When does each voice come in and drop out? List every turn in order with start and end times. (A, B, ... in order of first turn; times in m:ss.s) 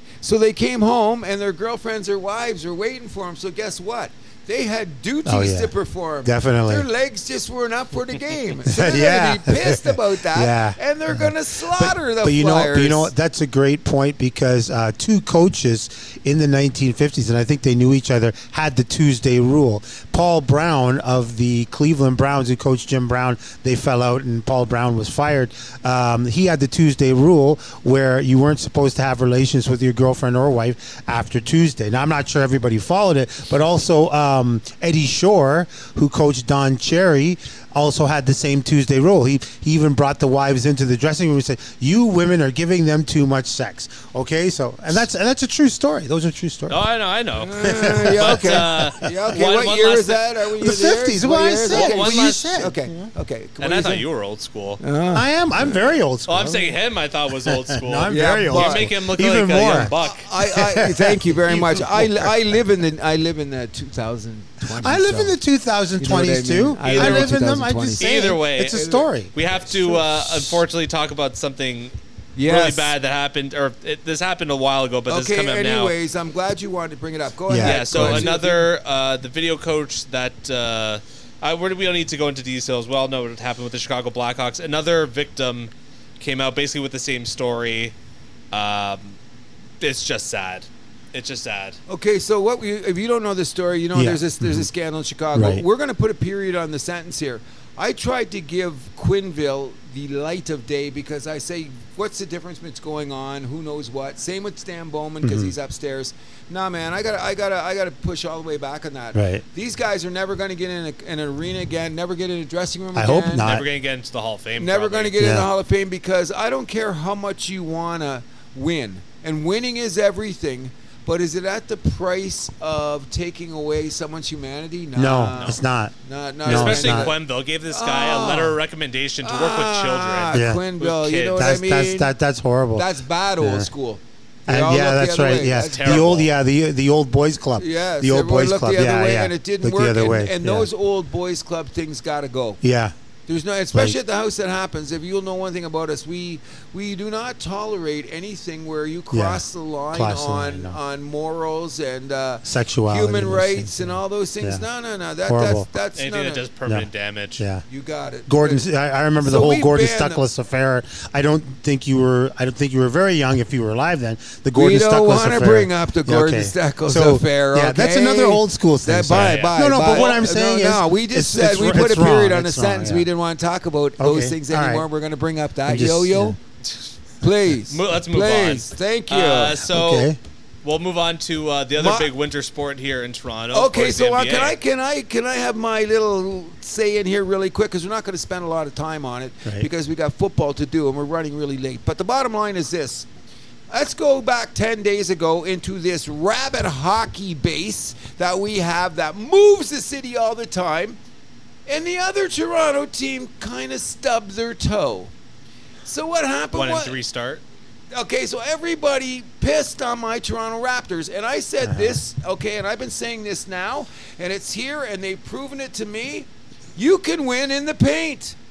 0:00.2-0:13.1 A
0:05.3-0:06.9 B
0:08.7-0:46.8 B
0:46.7-0:50.2 C
0:47.4-0:54.1 A
0:47.6-0:49.4 B
0:50.6-0:53.1 B
0:51.7-0:52.6 C
0:53.6-0:54.8 C
0:54.8-0:55.3 A
0:55.1-0:56.8 B
0:56.3-1:00.3 C
0:57.4-1:02.6 B
0:58.1-0:58.9 A
1:00.0-1:05.4 A
1:04.7-1:10.6 B
1:06.0-1:08.1 A
1:06.8-1:07.4 C
1:08.0-1:11.9 C
1:12.4-1:13.0 A
1:12.5-1:16.0 C
1:15.1-1:18.7 A
1:17.5-1:18.3 B
1:17.6-1:27.9 C
1:28.5-1:29.2 C
1:29.8-1:31.8 C
1:31.9-1:53.5 A
1:33.9-1:34.7 B
1:35.3-1:35.6 B
1:45.2-1:45.5 B
1:49.1-1:49.4 B
1:53.0-1:53.7 B
1:53.4-1:55.2 C
1:54.6-2:07.2 A
1:55.2-1:55.5 B
2:05.0-2:07.1 B
2:05.4-2:05.6 C
2:06.5-2:11.5 C
2:07.7-2:08.6 A
2:09.2-2:12.1 A
2:10.3-2:10.6 B
2:11.4-2:13.7 B
2:12.8-2:16.2 A
2:14.5-2:20.7 B
2:15.6-2:16.3 C
2:17.6-2:22.6 A
2:22.6-2:22.9 B
2:23.3-2:36.4 A
2:23.7-2:24.0 B
2:29.1-2:30.8 B
2:32.4-2:34.6 B
2:35.3-2:35.7 B
2:36.0-2:37.4 C
2:36.7-2:37.6 B
2:37.7-2:38.7 A
2:38.3-2:53.1 B
2:39.2-2:40.2 A
2:44.6-2:56.4 A
2:49.1-2:50.2 C
2:54.0-2:54.9 B
2:55.7-2:56.4 B
2:57.2-2:59.6 A
2:57.7-3:04.6 C
2:59.7-3:00.2 B
3:01.8-3:02.1 A
3:03.5-3:13.1 A
3:13.7-3:21.0 A
3:21.7-3:25.1 A
3:25.8-3:27.0 A
3:26.5-3:27.4 C
3:27.9-3:38.4 A
3:31.6-3:32.0 B